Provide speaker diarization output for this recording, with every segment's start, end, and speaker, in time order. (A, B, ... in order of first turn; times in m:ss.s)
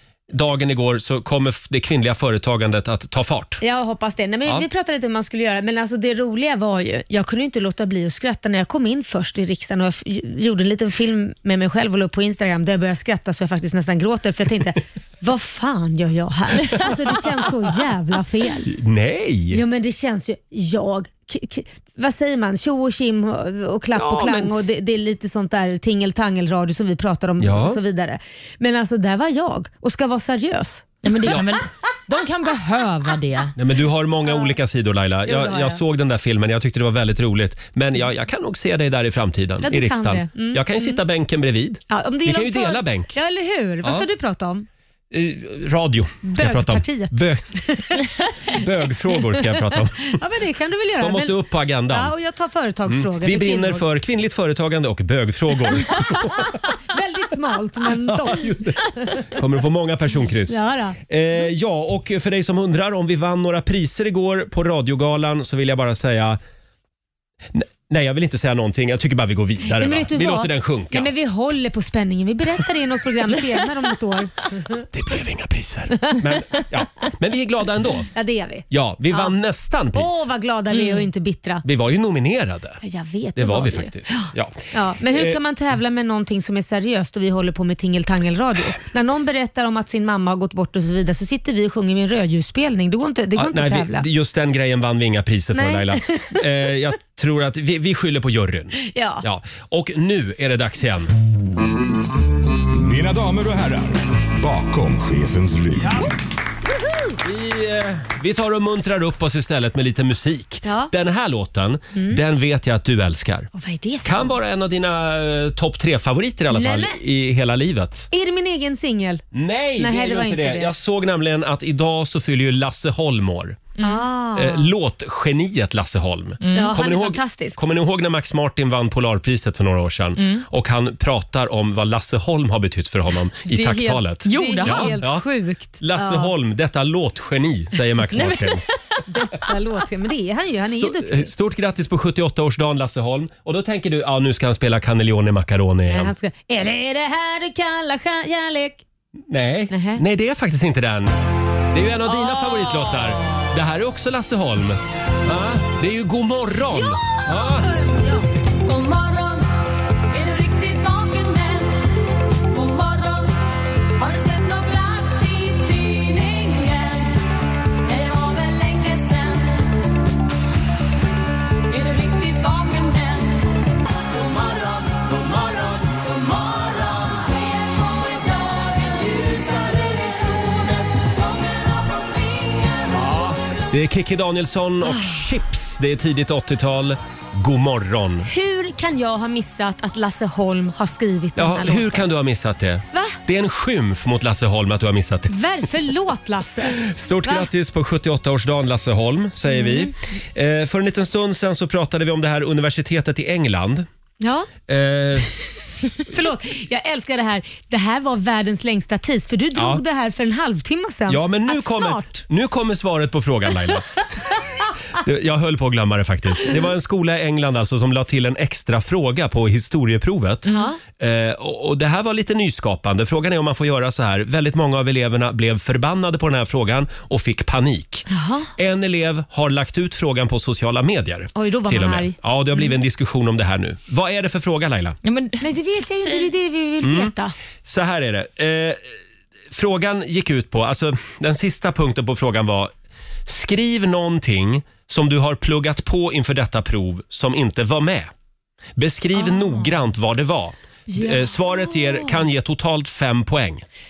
0:00.3-0:03.6 A
0:03.6-0:18.7 B
0:18.7-0:19.6 A
0:19.5-0:30.9 B
0:23.9-0:24.5 A
0:27.4-0:27.8 A
0:31.0-0:33.5 C
0:31.2-0:31.6 A
0:33.6-0:43.2 A
0:34.3-0:34.6 B
0:35.2-0:35.8 B
0:39.6-0:41.0 B
0:41.9-0:44.6 B
0:45.1-0:47.4 A
0:46.2-0:48.6 B
0:48.5-0:50.2 A
0:50.1-0:51.3 B
0:51.0-0:52.1 A
0:51.9-0:53.8 B
0:52.9-0:56.6 A
0:56.2-0:59.2 B
0:58.1-1:00.6 A
1:00.5-1:01.0 B
1:01.1-1:06.4 A
1:07.5-1:11.1 A
1:09.7-1:14.8 B
1:14.9-1:18.1 A
1:18.1-1:19.3 B
1:18.7-1:20.3 A
1:19.9-1:21.6 B
1:20.8-1:21.0 C
1:21.6-1:22.8 A
1:22.8-1:34.0 B
1:23.4-1:25.4 A
1:33.4-1:41.1 A
1:35.5-1:36.4 B
1:38.8-1:39.2 B
1:42.7-1:46.0 D
1:47.2-1:53.5 A
1:50.6-1:50.9 B
1:51.9-1:52.2 B
1:53.5-1:54.3 B
1:54.0-1:58.1 A
1:56.5-1:57.0 B
1:58.1-1:59.2 B
1:59.3-2:03.7 A
1:59.8-2:00.7 B
2:03.8-2:04.7 B
2:04.4-2:15.2 A
2:06.4-2:06.7 C
2:06.5-2:07.6 B
2:10.2-2:10.4 C
2:13.5-2:16.3 B
2:14.2-2:15.0 C
2:15.8-2:18.6 A
2:18.2-2:18.5 C
2:19.1-2:21.3 B
2:20.7-2:26.1 A
2:25.9-2:28.8 B
2:29.3-2:31.1 A
2:29.7-2:30.0 B
2:31.7-2:37.7 A
2:36.7-2:38.2 B
2:38.6-2:39.5 E
2:40.1-2:43.4 E
2:43.9-2:47.3 E
2:47.8-2:49.8 E
2:51.7-3:03.4 E
3:02.9-3:08.3 A
3:04.8-3:05.1 B
3:08.3-3:12.0 B
3:11.4-3:15.3 A
3:12.9-3:13.2 B
3:15.3-3:17.5 B
3:16.7-3:23.8 A
3:19.5-3:19.9 B
3:24.2-3:24.5 B
3:24.7-3:25.3 A
3:26.1-3:32.2 B
3:29.6-3:29.8 A
3:31.1-3:33.9 A
3:34.9-3:48.0 A
3:40.5-3:40.8 B
3:48.1-3:48.5 B
3:48.6-3:55.0 A
3:51.3-3:52.7 B
3:55.0-3:56.3 C
3:55.4-3:57.3 B
3:56.8-3:57.1 A
3:57.6-3:58.8 A
3:59.5-4:02.7 A
4:03.2-4:08.1 A
4:08.8-4:13.6 A
4:09.2-4:09.7 B
4:10.9-4:12.2 B